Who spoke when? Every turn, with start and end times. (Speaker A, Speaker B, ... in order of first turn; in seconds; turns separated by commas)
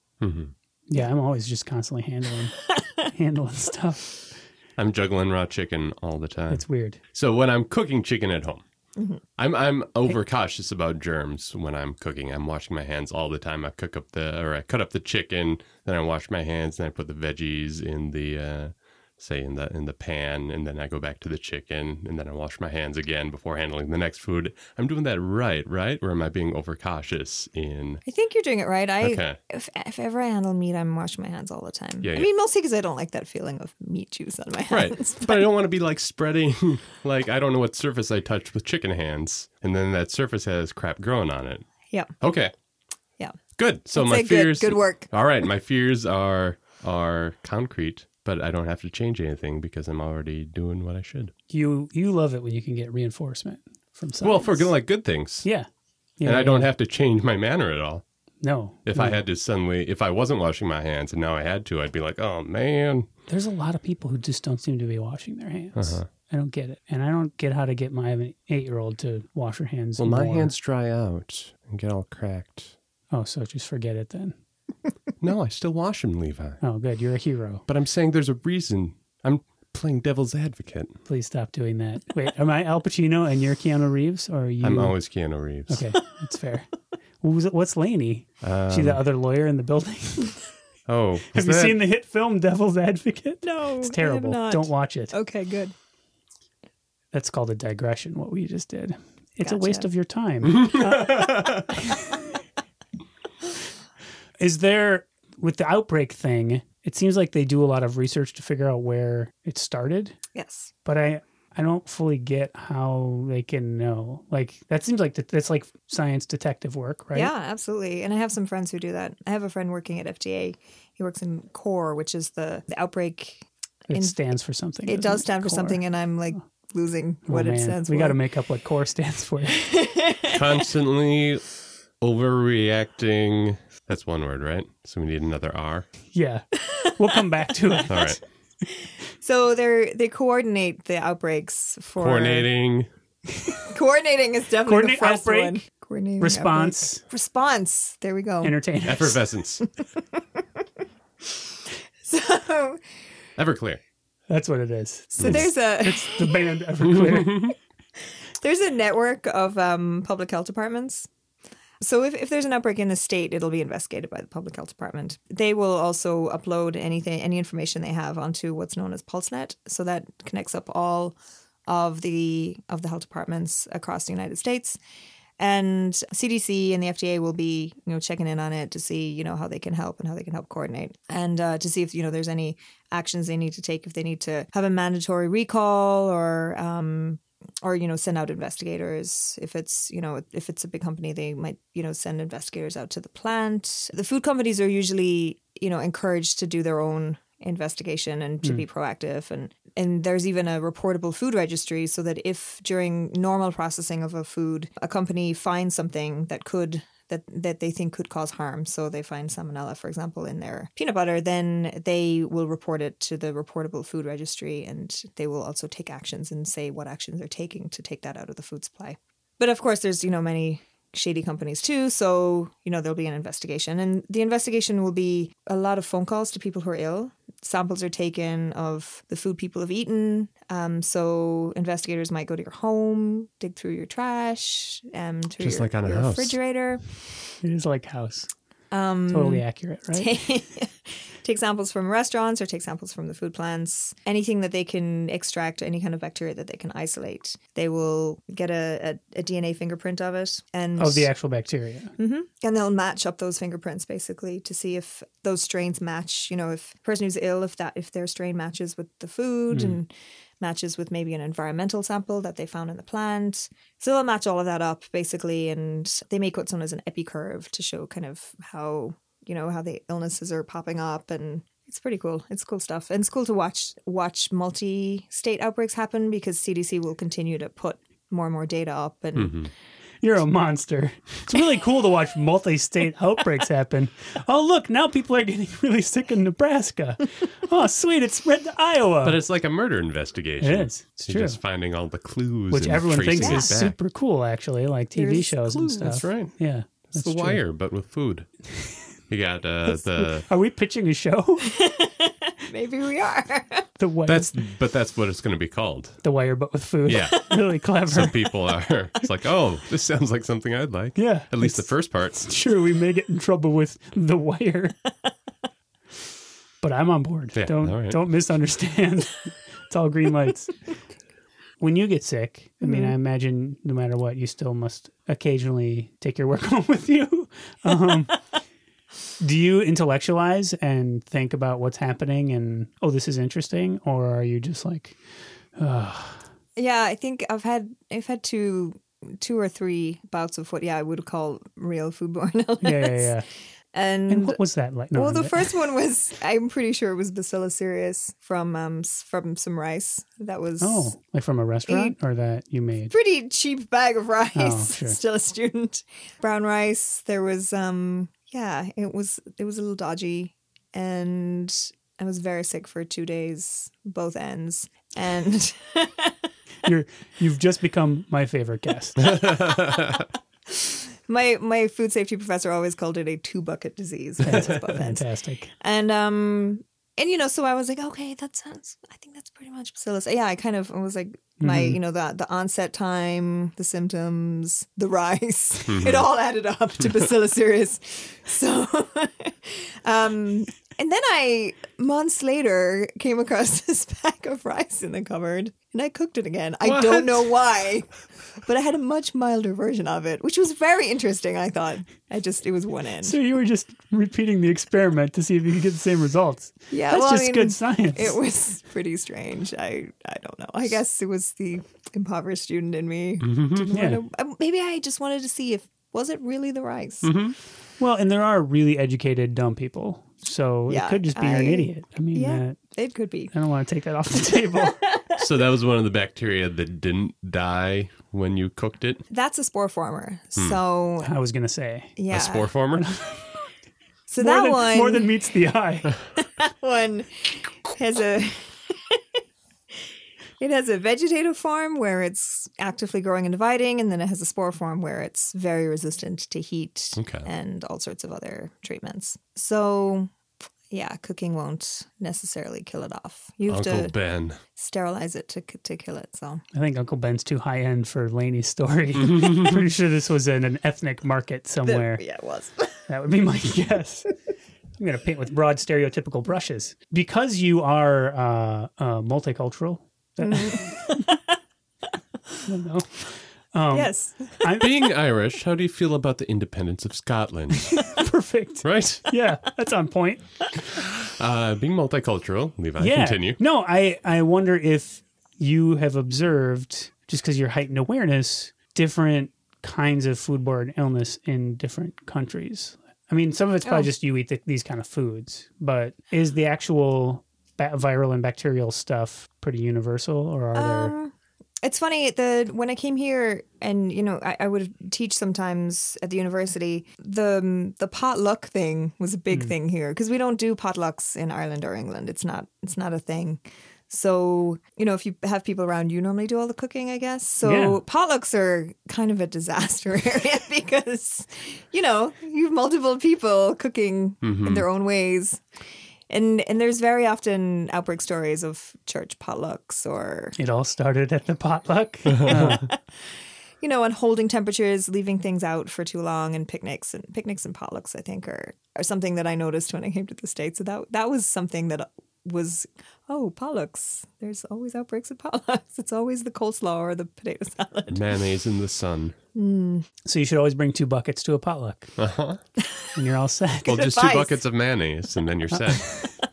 Speaker A: 0.2-0.5, Speaker B: 0.9-4.3, Speaker C: 2.8-3.0, Speaker A: 4.8-8.6, Speaker B: 6.5-7.0, Speaker C: 8.9-9.2, Speaker A: 9.4-28.0, Speaker C: 28.0-35.5, Speaker A: 29.0-29.4, Speaker A: 32.0-32.3, Speaker A: 34.7-41.7, Speaker A: 42.2-42.5, Speaker A: 43.5-51.3, Speaker C: 43.9-45.1, Speaker B: 51.5-54.7, Speaker A: 54.2-55.5, Speaker B: 56.2-56.7, Speaker A: 56.2-58.0, Speaker B: 58.4-59.2, Speaker A: 58.9-63.1, Speaker B: 63.3-70.5, Speaker A: 65.7-66.1, Speaker A: 70.0-72.7, Speaker B: 73.1-74.3, Speaker A: 75.2-76.6, Speaker B: 76.6-77.6, Speaker A: 77.7-81.0, Speaker B: 81.0-85.0, Speaker A: 84.6-85.8, Speaker B: 85.7-90.4, Speaker A: 88.4-89.0, Speaker A: 90.9-91.8, Speaker B: 91.3-95.1, Speaker C: 93.4-95.7, Speaker B: 97.1-102.1, Speaker C: 99.4-99.9, Speaker A: 100.5-101.7, Speaker B: 104.4-110.2, Speaker C: 110.3-110.7, Speaker B: 110.8-117.3, Speaker C: 117.1-124.2, Speaker B: 123.9-125.8, Speaker C: 124.9-128.2, Speaker B: 127.3-129.7, Speaker C: 129.5-130.4, Speaker A: 130.3-131.4, Speaker A: 132.0-135.9, Speaker B: 136.1-138.1, Speaker C: 136.6-137.8, Speaker A: 137.9-138.2, Speaker C: 138.7-142.5, Speaker A: 142.0-142.9, Speaker C: 143.5-148.6, Speaker B: 144.7-145.6, Speaker B: 146.2-147.0, Speaker B: 148.4-149.2, Speaker A: 148.8-149.7, Speaker C: 149.8-150.6, Speaker C: 151.2-151.5, Speaker C: 152.0-152.8, Speaker A: 153.4-153.8, Speaker B: 154.3-157.5, Speaker C: 155.2-156.5, Speaker A: 157.1-157.5, Speaker C: 158.4-161.1, Speaker C: 161.8-174.8, Speaker C: 175.4-236.9, Speaker A: 235.4-236.4, Speaker B: 237.4-238.3, Speaker C: 238.7-251.1, Speaker B: 239.1-240.1, Speaker B: 250.8-251.9, Speaker C: 252.0-279.4, Speaker B: 259.5-259.8, Speaker A: 279.1-279.5, Speaker B: 280.0-289.2, Speaker A: 289.0-293.8, Speaker B: 290.4-291.4, Speaker B: 292.5-297.4, Speaker C: 293.2-293.5, Speaker C: 294.9-296.0, Speaker A: 295.8-296.3, Speaker A: 296.9-298.3, Speaker A: 299.1-300.2, Speaker B: 299.8-301.6, Speaker C: 301.4-303.7, Speaker B: 303.8-304.4, Speaker A: 304.1-306.0, Speaker B: 306.0-308.3, Speaker A: 306.9-307.2, Speaker A: 307.9-312.3, Speaker B: 310.9-311.7, Speaker B: 312.2-314.8, Speaker B: 316.6-320.6, Speaker A: 317.3-318.0, Speaker B: 321.6-328.2, Speaker C: 322.6-322.9, Speaker B: 329.2-335.0, Speaker B: 335.6-336.2, Speaker C: 336.6-343.1, Speaker B: 342.6-343.3, Speaker C: 343.7-344.4, Speaker B: 344.1-345.5, Speaker C: 344.9-350.9, Speaker B: 350.6-352.9, Speaker C: 351.7-351.9, Speaker C: 352.9-366.1, Speaker B: 354.4-355.0, Speaker B: 366.6-369.2, Speaker A: 369.2-370.0, Speaker C: 370.5-375.0, Speaker B: 374.2-375.5, Speaker C: 375.6-397.9, Speaker B: 381.4-381.8, Speaker A: 385.7-386.1, Speaker A: 396.6-397.3, Speaker C: 398.4-403.2, Speaker B: 403.0-408.1, Speaker C: 406.7-417.1, Speaker A: 413.2-413.7, Speaker B: 413.7-414.0, Speaker A: 417.0-417.4, Speaker B: 417.8-422.6, Speaker C: 420.7-423.3, Speaker B: 423.3-424.8, Speaker C: 424.2-425.2, Speaker A: 425.2-429.0, Speaker C: 429.1-431.1, Speaker B: 431.0-432.0, Speaker C: 432.0-432.5, Speaker A: 432.1-432.8, Speaker B: 432.7-433.2, Speaker C: 434.1-435.1, Speaker B: 434.2-436.0, Speaker C: 436.2-439.0, Speaker C: 440.4-450.1, Speaker A: 446.9-447.3, Speaker C: 450.7-453.9, Speaker A: 453.5-454.4, Speaker C: 454.5-456.4, Speaker B: 456.5-462.0, Speaker C: 461.6-462.9, Speaker B: 462.9-464.1, Speaker B: 464.8-471.0, Speaker C: 470.2-471.4, Speaker B: 472.4-474.7, Speaker C: 473.7-474.5, Speaker A: 474.6-477.8, Speaker B: 477.8-480.5, Speaker A: 478.6-479.1, Speaker A: 480.8-483.4, Speaker B: 482.8-500.9, Speaker C: 493.6-493.9, Speaker C: 500.5-525.4, Speaker B: 517.4-517.8, Speaker A: 524.2-524.6, Speaker C: 526.1-530.4, Speaker B: 530.4-532.7, Speaker C: 532.2-532.8, Speaker C: 533.6-548.0, Speaker A: 547.9-549.1, Speaker C: 549.3-549.9, Speaker B: 550.0-551.9, Speaker A: 552.0-552.4, Speaker C: 552.6-552.9, Speaker B: 552.9-553.8, Speaker A: 553.6-555.9, Speaker C: 553.7-554.3